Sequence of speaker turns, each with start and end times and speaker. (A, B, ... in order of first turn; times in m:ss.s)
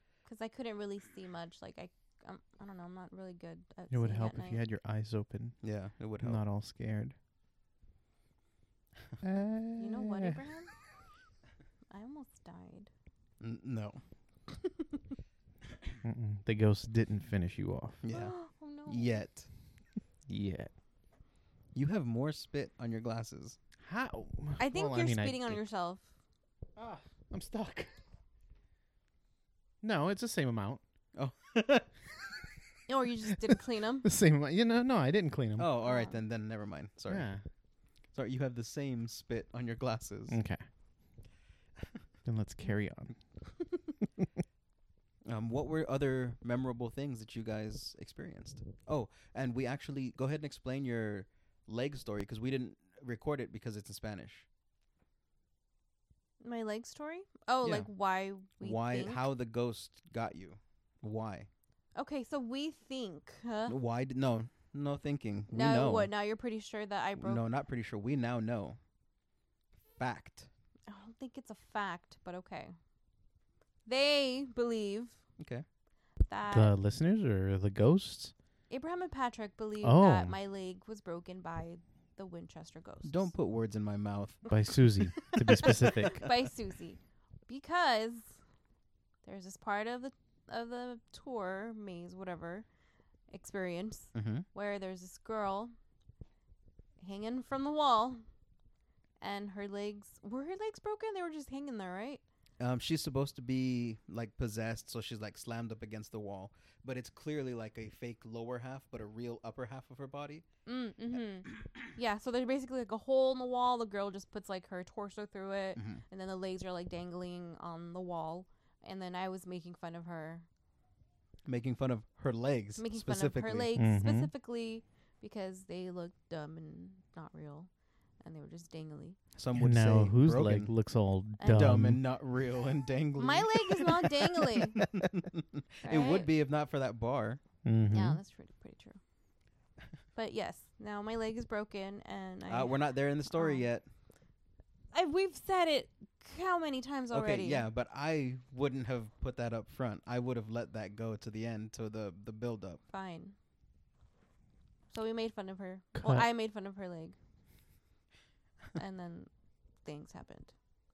0:00.2-0:04.6 A
0:03.9-0:05.6 B
0:05.6-0:06.4 C
0:06.2-0:07.1 B
0:09.2-0:10.4 B
0:09.8-0:10.7 A
0:11.9-0:12.9 A
0:13.4-0:14.0 C
0:14.5-0:15.0 A
0:16.0-0:18.0 B
0:18.0-0:19.5 C
0:18.1-0:19.2 A
0:20.3-0:20.7 B
0:21.7-0:23.6 C
0:23.8-0:25.6 B
0:24.6-0:26.1 A
0:26.8-0:27.9 B
0:29.8-0:30.8 B
0:31.1-0:31.9 C
0:32.9-0:34.1 A
0:34.0-0:35.7 B
0:35.6-0:37.3 C
0:35.8-0:36.2 A
0:37.1-0:37.4 B
0:38.1-0:40.4 C
0:40.3-0:40.6 B
0:42.2-0:43.2 B
0:45.2-0:54.5 C
0:56.4-0:59.2 A
0:57.6-0:57.9 C
0:58.6-1:01.5 C
1:02.0-1:03.8 A
1:03.7-1:06.1 C
1:05.5-1:07.4 A
1:07.2-1:08.8 C
1:10.0-1:10.5 C
1:10.9-1:12.7 A
1:13.8-1:15.2 A
1:15.4-1:15.6 C
1:16.3-1:16.7 A
1:16.5-1:18.3 B
1:18.7-1:23.3 A
1:19.8-1:20.4 B
1:23.0-1:24.5 C
1:24.5-1:26.2 B
1:25.1-1:28.4 A
1:25.6-1:26.3 C
1:29.2-1:32.7 A
1:33.3-1:35.7 A
1:34.1-1:34.5 C
1:37.0-1:38.2 A
1:39.2-1:42.2 A
1:42.6-1:50.4 C
1:50.6-2:00.5 A
1:55.8-1:56.0 C
2:01.5-2:03.7 C
2:02.8-2:07.7 A
2:03.8-2:04.3 B
2:08.2-2:09.2 A
2:09.4-2:10.7 C
2:09.5-2:12.0 B
2:11.4-2:11.7 A
2:11.5-2:17.4 C
2:13.2-2:14.8 A
2:15.8-2:16.3 A
2:17.6-2:18.2 B
2:17.9-2:19.0 A
2:20.1-2:23.6 A
2:22.5-2:23.8 C
2:24.9-2:27.6 A
2:27.1-2:32.8 C
2:32.9-2:33.4 A
2:34.9-2:37.2 A
2:35.9-2:36.3 B
2:38.8-2:39.3 A
2:39.8-2:40.5 A